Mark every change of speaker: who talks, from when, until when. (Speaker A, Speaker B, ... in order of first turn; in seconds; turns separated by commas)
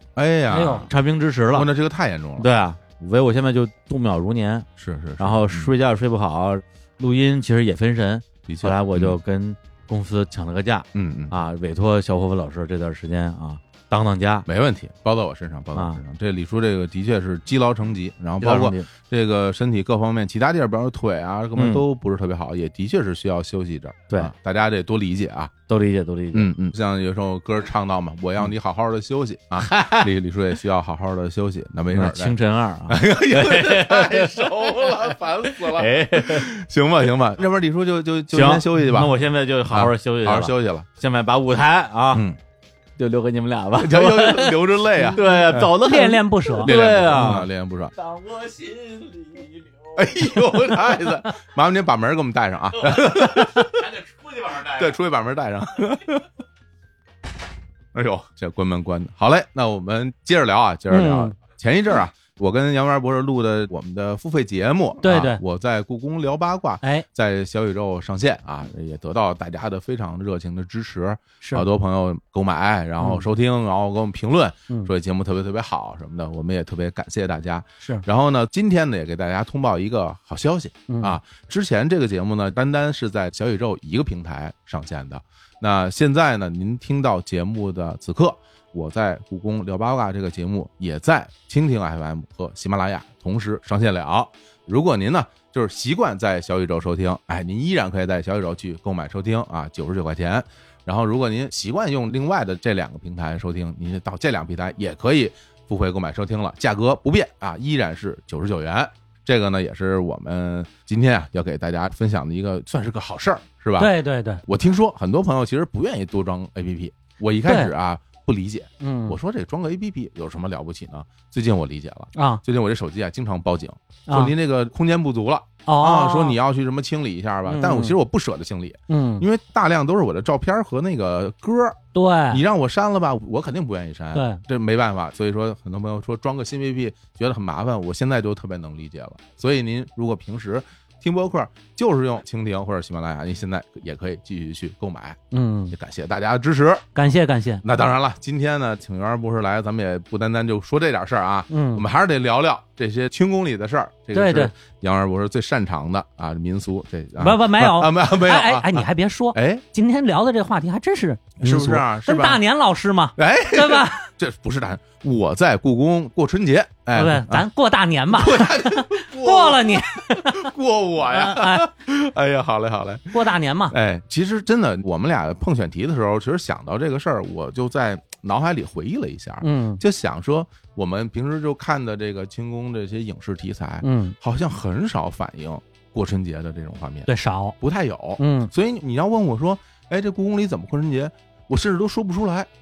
Speaker A: 0.1-0.9, Speaker B: 0.5-0.9, Speaker C: 0.9-1.7, Speaker A: 1.5-2.5, Speaker C: 2.4-4.7, Speaker A: 4.8-5.7, Speaker C: 5.2-14.5, Speaker A: 8.5-9.2, Speaker A: 10.9-11.3, Speaker A: 14.5-25.5, Speaker C: 15.7-16.0, Speaker C: 18.4-18.9, Speaker C: 21.6-21.8, Speaker C: 25.7-26.5, Speaker A: 26.3-32.4, Speaker C: 29.6-30.1, Speaker C: 31.9-36.5, Speaker A: 32.9-39.1, Speaker C: 38.3-42.2, Speaker A: 39.7-40.9, Speaker A: 42.1-42.4, Speaker C: 43.0-50.0, Speaker A: 43.8-45.7, Speaker B: 45.3-46.7, Speaker A: 46.6-47.9, Speaker A: 50.0-53.9, Speaker C: 52.9-54.9, Speaker A: 54.6-56.2, Speaker A: 57.9-113.9, Speaker B: 60.9-61.3, Speaker B: 65.0-65.4, Speaker B: 80.9-81.1, Speaker B: 113.8-114.4, Speaker A: 114.5-131.8, Speaker B: 118.8-119.2, Speaker B: 122.1-122.4, Speaker B: 124.1-124.3, Speaker B: 125.7-126.4, Speaker B: 127.5-128.0, Speaker B: 128.9-129.2, Speaker B: 131.9-132.4, Speaker A: 132.3-145.2, Speaker B: 134.1-134.4, Speaker B: 145.3-145.8, Speaker A: 145.7-146.8, Speaker B: 146.9-147.6, Speaker A: 147.6-159.6, Speaker B: 151.5-151.8, Speaker B: 154.1-154.5, Speaker B: 157.2-164.1, Speaker A: 161.4-162.4, Speaker A: 163.2-167.4, Speaker B: 166.9-170.5, Speaker A: 168.1-187.1, Speaker B: 171.1-171.7, Speaker B: 173.1-173.8, Speaker B: 179.4-179.8, Speaker B: 183.8-184.2, Speaker B: 187.1-187.6, Speaker A: 187.6-192.5, Speaker B: 188.2-188.5